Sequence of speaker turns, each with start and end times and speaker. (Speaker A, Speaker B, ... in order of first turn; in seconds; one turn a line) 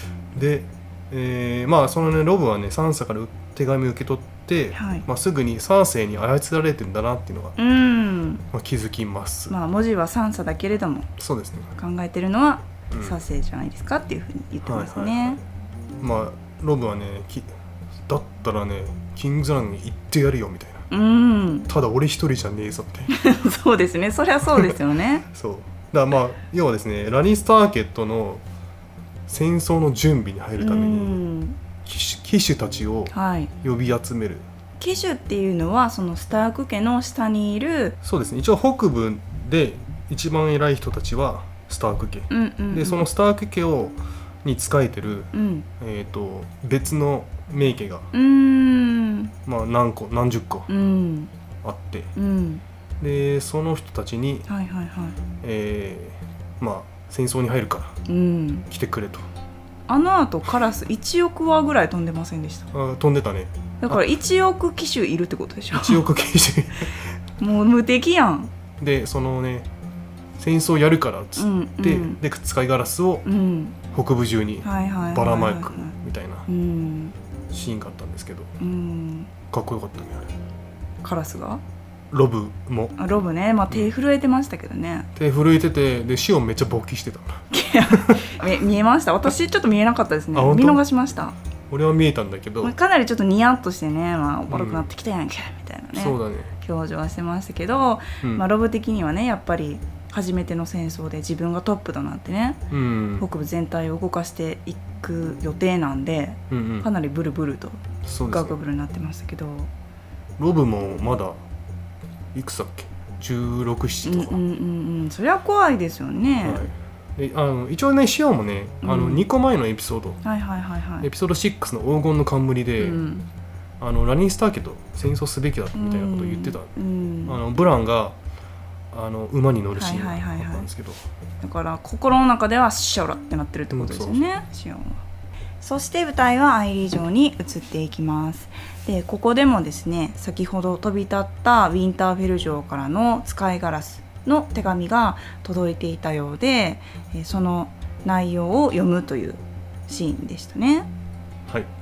Speaker A: 0.3-7.6
Speaker B: 4.7-5.0
Speaker B: 7.6-8.4
Speaker A: 8.5-9.6
Speaker B: 9.5-11.1
Speaker A: 11.2-11.7
Speaker B: 11.8-15.4
Speaker A: 12.9-13.2
Speaker A: 14.7-15.4
Speaker A: 16.0-17.5
Speaker A: 18.1-20.9
Speaker B: 20.9-21.7
Speaker A: 21.7-23.1
Speaker B: 23.1-25.3
Speaker A: 25.3-28.4
Speaker A: 29.3-31.2
Speaker B: 30.6-31.6
Speaker A: 31.9-34.5
Speaker B: 33.1-33.5
Speaker B: 34.8-38.0
Speaker A: 38.0-48.1
Speaker B: 42.3-43.1
Speaker B: 45.3-45.7
Speaker B: 48.1-49.3
Speaker A: 49.5-50.7
Speaker B: 50.7-51.3
Speaker A: 51.6-52.1
Speaker B: 52.2-52.6
Speaker A: 53.0-54.5
Speaker B: 54.5-55.2
Speaker A: 55.4-58.0
Speaker B: 58.1-58.7
Speaker A: 58.7-59.3
Speaker B: 59.9-62.7
Speaker A: 62.7-64.0
Speaker B: 63.8-66.0
Speaker A: 65.7-67.1
Speaker B: 67.4-68.5
Speaker A: 68.8-69.7
Speaker A: 70.4-73.3
Speaker B: 71.4-72.2
Speaker B: 73.2-73.8
Speaker A: 73.9-76.5
Speaker B: 74.6-76.0
Speaker B: 76.5-77.1
Speaker A: 77.5-78.5
Speaker B: 78.6-79.3
Speaker A: 79.5-80.3
Speaker B: 81.0-81.6
Speaker A: 82.1-83.0
Speaker B: 83.0-85.1
Speaker A: 85.2-88.3
Speaker B: 87.5-91.3
Speaker A: 90.3-90.8
Speaker A: 91.7-92.7
Speaker B: 92.6-102.6
Speaker A: 94.5-94.9
Speaker A: 95.9-96.5
Speaker A: 102.7-103.3
Speaker B: 103.2-109.7
Speaker A: 106.5-106.9
Speaker A: 108.0-108.6
Speaker A: 110.4-111.4
Speaker A: 112.3-114.4
Speaker B: 114.0-116.7
Speaker A: 116.4-120.2
Speaker B: 118.8-119.3
Speaker B: 120.2-121.1
Speaker A: 121.0-123.0
Speaker B: 122.8-123.3
Speaker A: 123.8-126.7
Speaker B: 125.7-127.4
Speaker A: 127.3-128.2
Speaker A: 128.9-131.0
Speaker B: 129.8-130.7
Speaker B: 131.4-135.0
Speaker A: 133.7-134.3
Speaker B: 135.6-150.9